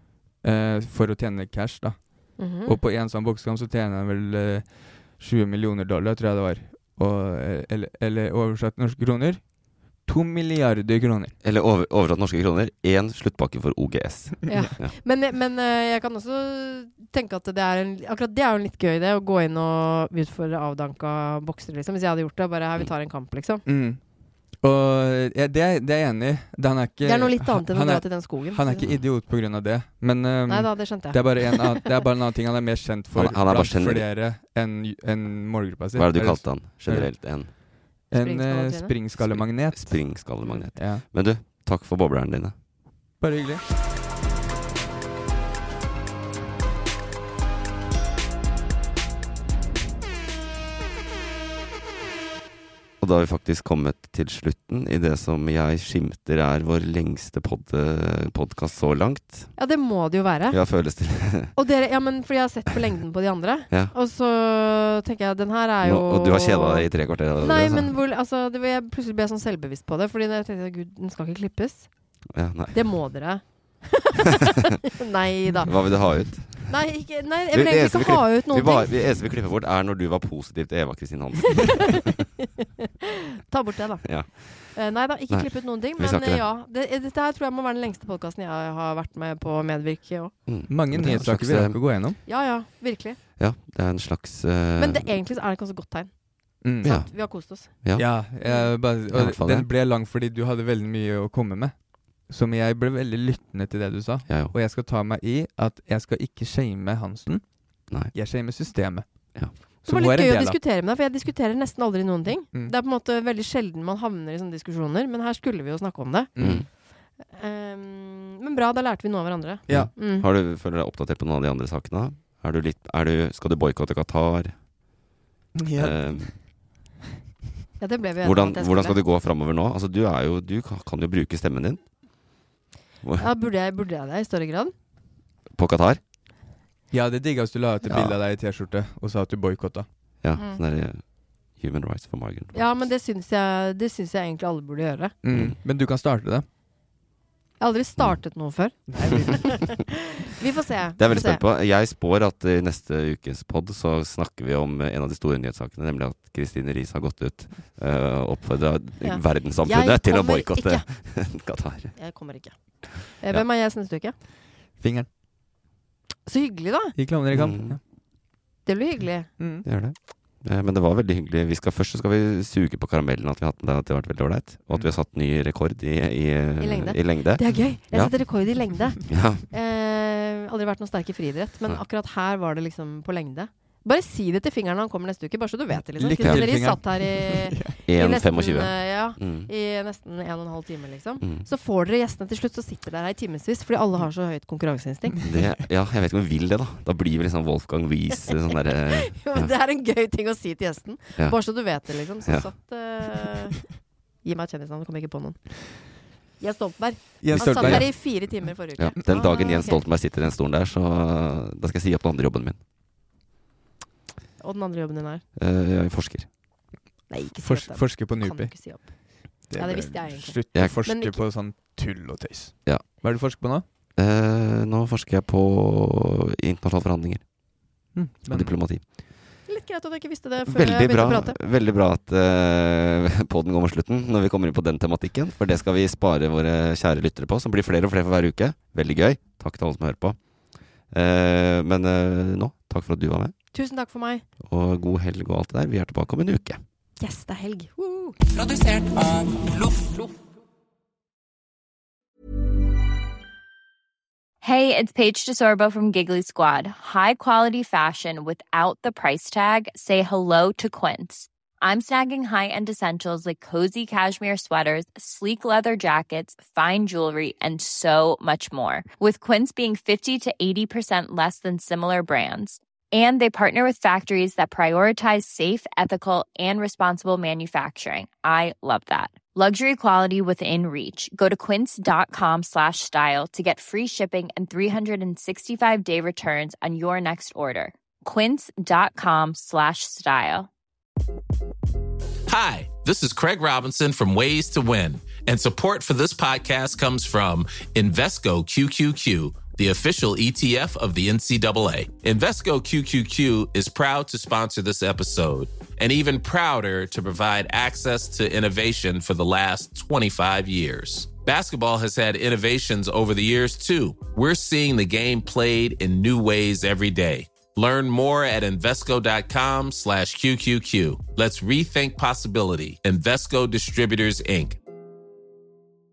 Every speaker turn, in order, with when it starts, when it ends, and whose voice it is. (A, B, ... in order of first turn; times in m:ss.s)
0:00.4-0:09.4 A
0:02.4-0:02.8 B
0:10.0-0:11.3 A
0:11.4-0:14.9 C
0:14.5-0:23.6 B
0:23.6-0:24.0 A
0:24.6-0:37.3 A
0:27.0-0:28.8 B
0:30.5-0:31.8 B
0:33.1-0:34.0 C
0:36.0-0:37.5 C
0:38.1-0:41.0 A
0:38.1-0:38.9 B
0:39.2-0:42.5 C
0:43.2-0:43.6 A
0:53.0-0:59.6 C
0:59.6-1:00.6 B
1:00.5-1:01.5 C
1:01.5-1:06.8 B
1:05.8-1:07.9 C
1:07.4-1:11.9 B
1:12.3-1:12.8 C
1:12.7-1:18.9 B
1:15.7-1:16.7 C
1:17.5-1:22.0 C
1:23.5-1:30.3 B
1:24.0-1:24.8 C
1:25.3-1:26.4 C
1:30.4-1:31.8 C
1:30.7-1:32.2 A
1:32.2-1:33.2 B
1:33.4-1:35.1 C
1:34.8-1:36.1 B
1:36.6-1:37.0 A
1:36.7-1:37.7 B
1:36.8-1:38.0 C
1:37.9-1:47.4 A
1:39.1-1:39.7 C
1:44.3-1:44.5 C
1:48.1-1:49.0 A
1:49.8-1:50.6 A
1:49.8-1:56.3 B
1:56.4-1:56.7 A
1:56.4-1:56.7 C
1:57.2-2:00.2 B
1:59.7-2:00.0 A
1:59.7-2:04.6 C
2:05.6-2:06.4 A
2:05.8-2:06.4 C
2:07.8-2:09.0 B
2:08.2-2:11.8 C
2:13.0-2:13.3 C
2:13.2-2:14.7 B
2:15.6-2:16.0 C
2:16.9-2:19.8 A
2:17.9-2:18.2 C
2:20.2-2:21.0 C
2:21.6-2:22.8 C
2:22.5-2:25.1 B
2:25.2-2:26.4 A
2:25.3-2:25.6 C
2:27.6-2:31.4 B
2:28.9-2:29.4 A
2:31.0-2:42.0 C
2:39.0-2:41.2 B
2:41.9-2:44.2 B
2:44.8-2:45.1 A
2:46.2-2:46.9 B
2:46.9-2:47.8 A
2:47.3-2:47.8 C
2:48.6-2:49.3 B
2:49.4-2:49.7 A
2:49.6-2:59.4 C
2:56.6-3:15.2 B
3:05.9-3:07.8 A
3:07.9-3:09.5 C
3:11.2-3:11.5 C
3:15.1-3:15.5 A
3:15.2-3:19.5 C
3:18.7-3:23.7 B
3:21.2-3:22.5 C
3:24.2-3:25.9 B
3:26.4-3:29.8 B
3:27.2-3:29.6 A
3:27.3-3:32.6 C
3:34.4-3:35.2 B
3:35.4-3:36.3 C
3:37.1-3:41.2 B
3:37.4-3:38.8 A
3:39.5-3:43.6 A
3:44.0-3:47.2 C
3:47.9-3:48.6 A
3:48.3-3:48.8 C
3:49.5-3:51.4 B
3:50.5-4:00.2 C
4:00.9-4:03.3 C
4:03.5-4:04.2 B
4:04.4-4:06.6 C
4:07.0-4:08.2 B
4:14.4-4:50.5 D
4:52.3-5:24.6 E